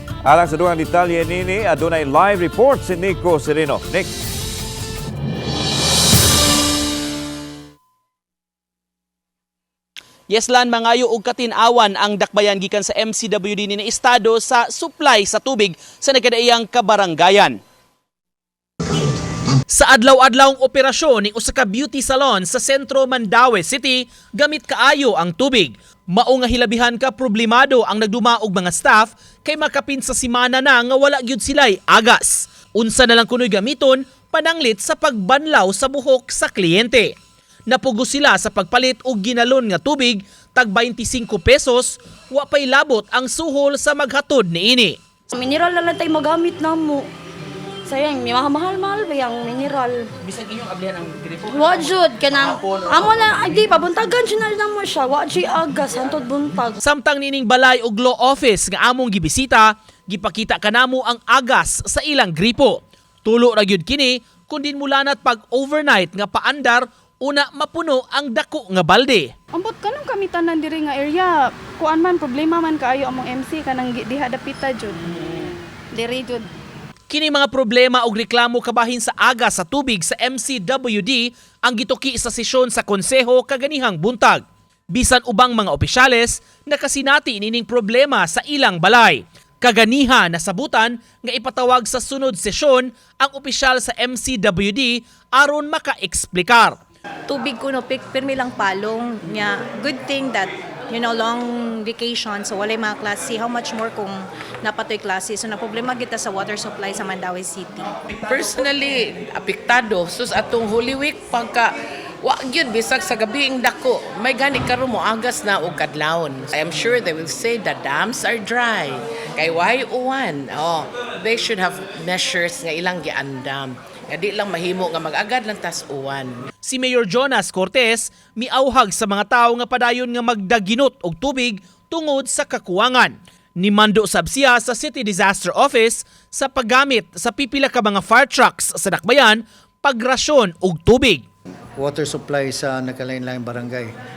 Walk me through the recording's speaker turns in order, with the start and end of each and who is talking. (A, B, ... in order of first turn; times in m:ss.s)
0:00.2-0:04.1 A
0:10.3-0:17.6 B
0:19.7-0:37.1 B
0:37.7-0:45.0 B
0:45.3-0:47.1 C
0:47.8-0:50.1 C
0:50.4-0:51.4 B
0:51.4-0:56.8 C
0:56.8-1:09.3 B
1:09.5-1:16.5 D
1:17.1-1:36.8 B
1:37.3-1:47.9 E
1:48.1-1:51.7 F
1:52.2-2:06.4 F
2:06.6-2:21.2 B
2:21.8-2:23.9 G